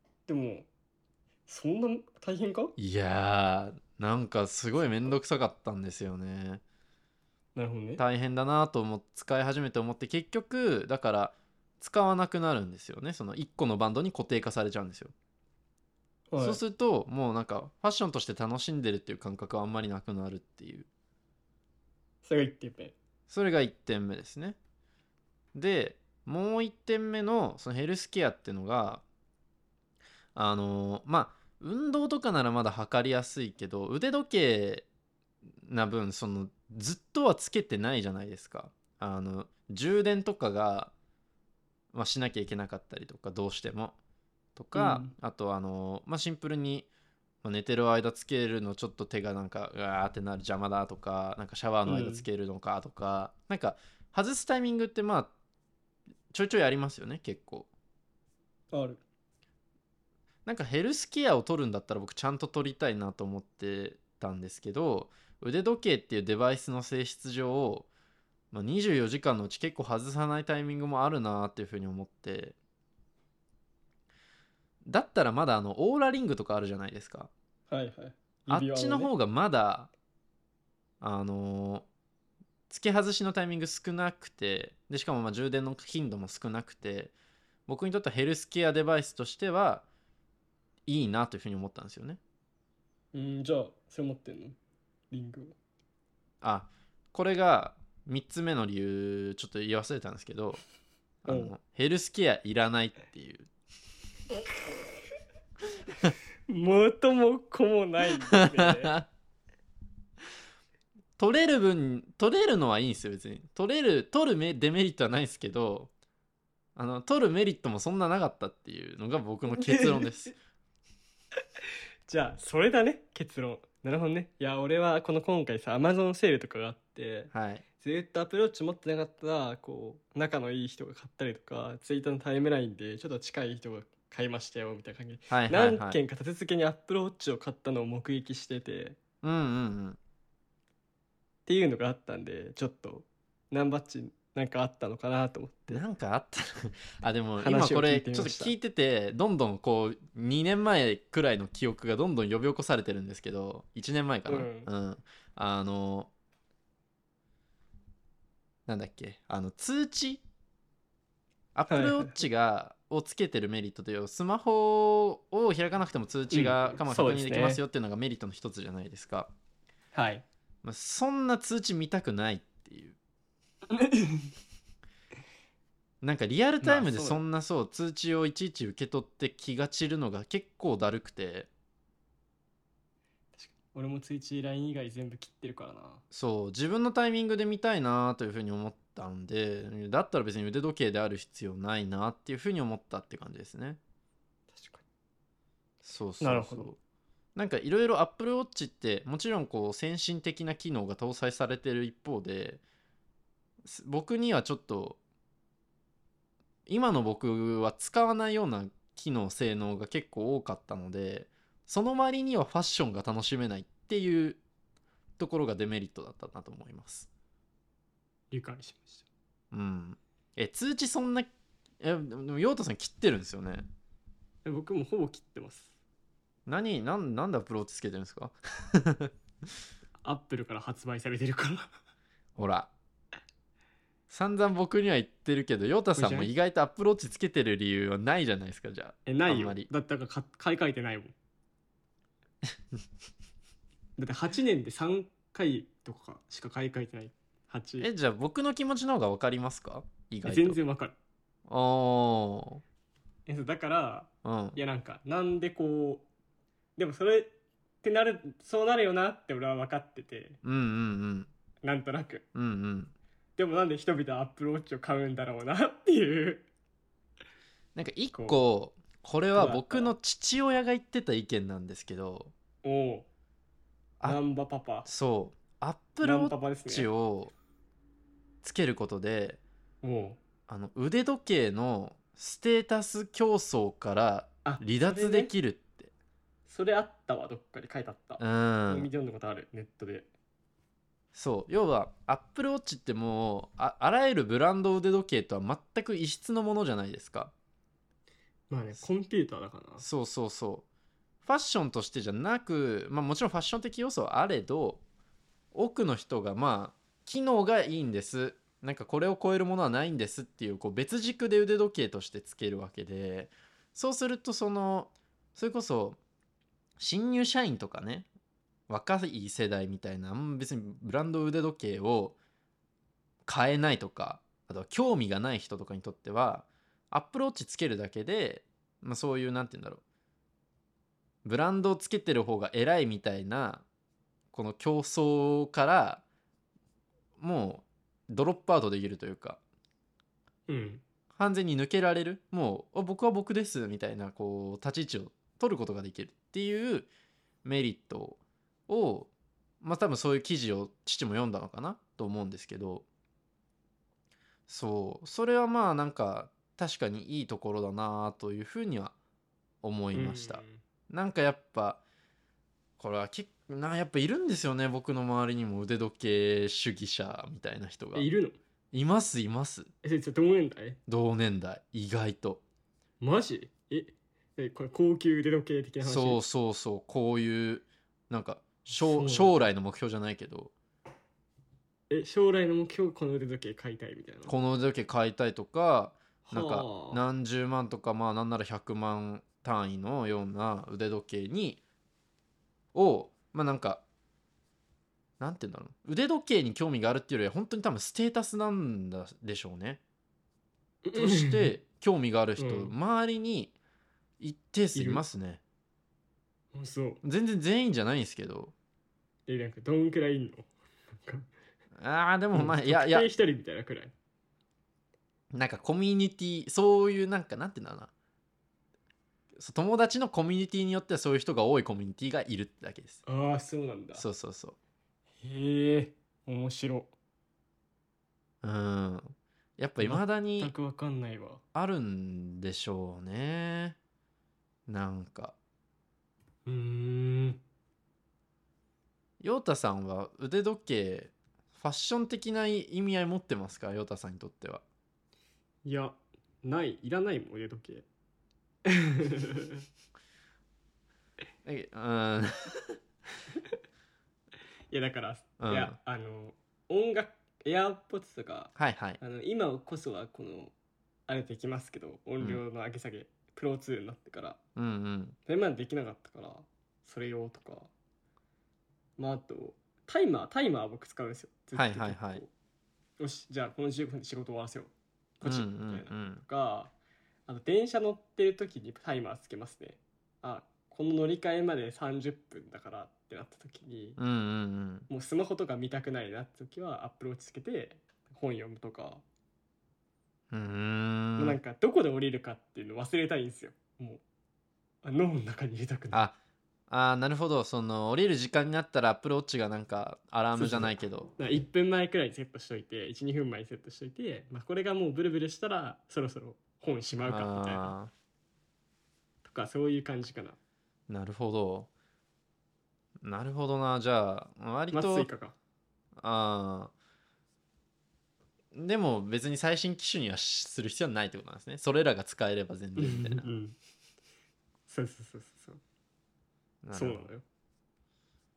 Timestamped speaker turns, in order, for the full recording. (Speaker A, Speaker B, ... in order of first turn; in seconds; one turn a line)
Speaker A: 0.3-0.7
Speaker A: 1.5-2.8
Speaker B: 2.8-6.6
Speaker A: 7.5-8.0
Speaker B: 8.0-15.1
Speaker A: 16.3-16.6
Speaker B: 16.4-20.9
Speaker A: 22.2-22.9
Speaker B: 23.3-24.6
Speaker B: 25.5-29.0
Speaker B: 30.3-34.9
Speaker B: 35.6-40.9
Speaker B: 41.9-44.0
Speaker B: 44.5-46.9
Speaker A: 44.7-45.1
Speaker B: 47.4-55.3
Speaker A: 51.9-52.3
Speaker B: 56.3-57.7
Speaker A: 58.7-59.0
Speaker B: 60.5-67.9
Speaker B: 68.5-72.5
Speaker B: 74.8-77.3
Speaker A: 77.7-79.1
Speaker B: 78.5-79.9
Speaker B: 81.0-81.9
Speaker B: 82.7-87.1
Speaker B: 87.7-89.8
Speaker B: 90.8-92.2
Speaker A: 93.1-94.6
Speaker A: 95.1-95.5
Speaker B: 96.4-100.6
Speaker B: 101.2-103.5
Speaker A: 101.2-101.5
Speaker A: 106.5-109.0
Speaker B: 108.2-109.0
Speaker B: 111.2-115.9
Speaker B: 116.8-120.3
Speaker A: 119.5-120.1
Speaker A: 122.1-139.0
Speaker B: 127.3-127.6
Speaker B: 135.3-136.0
Speaker B: 139.2-140.0
Speaker A: 141.4-145.8
Speaker B: 145.7-156.1
Speaker A: 147.4-148.5
Speaker A: 154.3-154.7
Speaker B: 158.7-160.2
Speaker B: 161.5-169.3
Speaker A: 161.7-162.2
Speaker A: 166.3-167.6
Speaker A: 169.9-170.2
Speaker B: 170.6-173.0
Speaker A: 173.7-174.3
Speaker B: 176.0-181.5
Speaker A: 176.6-177.2
Speaker A: 183.4-186.0
Speaker B: 186.1-193.8
Speaker A: 194.5-194.8
Speaker B: 195.8-196.8
Speaker A: 196.2-196.7
Speaker B: 197.3-202.6
Speaker B: 203.6-205.0
Speaker B: 206.7-214.4
Speaker B: 215.2-217.1
Speaker A: 218.3-219.1
Speaker B: 219.5-223.7
Speaker A: 224.4-225.7
Speaker B: 226.4-229.1
Speaker A: 230.0-231.7
Speaker B: 232.3-232.7
Speaker B: 234.1-239.7
Speaker A: 235.9-236.3
Speaker A: 239.1-241.1
Speaker A: 244.0-247.9
Speaker B: 247.8-250.6
Speaker A: 250.2-250.9
Speaker B: 251.5-252.6
Speaker A: 253.2-256.1
Speaker B: 254.2-254.6
Speaker A: 256.8-260.4
Speaker B: 260.4-261.3
Speaker A: 261.6-262.2
Speaker B: 262.3-262.9
Speaker A: 263.4-266.5
Speaker B: 267.7-272.3
Speaker A: 268.1-268.4
Speaker A: 269.3-269.9
Speaker A: 272.6-273.1
Speaker A: 274.0-274.9
Speaker B: 274.8-277.3
Speaker A: 276.0-276.9
Speaker B: 278.4-279.4
Speaker A: 279.8-280.2
Speaker B: 280.5-285.9
Speaker A: 284.4-285.3
Speaker A: 286.4-290.1
Speaker B: 288.2-288.9
Speaker B: 291.1-297.3
Speaker A: 298.5-299.8
Speaker B: 299.8-300.6
Speaker B: 301.2-304.8
Speaker B: 305.5-316.0
Speaker B: 316.8-318.1
Speaker B: 318.7-322.2
Speaker B: 323.2-329.8
Speaker B: 331.2-333.6
Speaker B: 334.3-336.0
Speaker B: 337.2-339.4
Speaker A: 340.5-340.8
Speaker B: 341.1-346.9
Speaker B: 347.4-349.1
Speaker B: 349.6-352.8
Speaker B: 354.5-358.9
Speaker B: 359.6-361.8
Speaker A: 359.9-360.6
Speaker B: 362.8-368.1
Speaker A: 367.9-368.4
Speaker B: 368.7-369.7
Speaker A: 369.8-370.8
Speaker B: 370.9-372.4
Speaker A: 373.0-376.2
Speaker B: 375.8-380.5
Speaker A: 378.7-379.3
Speaker A: 381.9-384.4
Speaker B: 384.3-391.6
Speaker A: 386.3-387.0
Speaker B: 392.7-393.8
Speaker B: 395.2-399.8
Speaker A: 400.8-401.6
Speaker B: 400.9-403.5
Speaker A: 402.4-402.7
Speaker B: 404.2-405.4
Speaker A: 404.7-405.0
Speaker A: 406.5-407.0
Speaker B: 407.0-408.5
Speaker A: 409.3-410.5
Speaker A: 411.0-411.3
Speaker B: 411.8-413.1
Speaker A: 412.3-413.9
Speaker B: 415.3-417.9
Speaker B: 419.3-423.0
Speaker A: 423.1-424.0
Speaker B: 423.9-424.6
Speaker A: 425.2-426.9
Speaker B: 428.4-430.5
Speaker A: 429.8-431.4
Speaker B: 431.5-433.8
Speaker B: 434.7-435.4
Speaker A: 436.4-437.4
Speaker B: 439.2-444.6
Speaker A: 445.6-447.8
Speaker A: 448.6-449.6
Speaker B: 451.4-452.8
Speaker A: 454.7-460.5
Speaker B: 455.4-455.8
Speaker B: 458.6-459.0
Speaker A: 461.1-464.4
Speaker B: 464.6-465.1
Speaker A: 465.2-467.7
Speaker A: 469.0-472.3
Speaker B: 471.5-472.2
Speaker A: 473.0-476.7
Speaker B: 475.2-476.2
Speaker A: 477.3-484.0
Speaker B: 484.0-484.9
Speaker A: 484.9-489.0
Speaker B: 490.3-491.4
Speaker A: 491.2-494.0
Speaker A: 494.8-496.1
Speaker B: 495.9-496.2
Speaker B: 496.7-501.1
Speaker A: 500.3-507.7
Speaker B: 507.1-507.9
Speaker A: 509.2-510.4
Speaker B: 510.9-511.7
Speaker B: 513.0-515.1
Speaker A: 514.7-515.3
Speaker B: 516.0-516.7
Speaker B: 518.5-523.3
Speaker A: 522.8-523.5
Speaker A: 524.7-525.6
Speaker B: 526.6-527.0
Speaker A: 526.7-527.2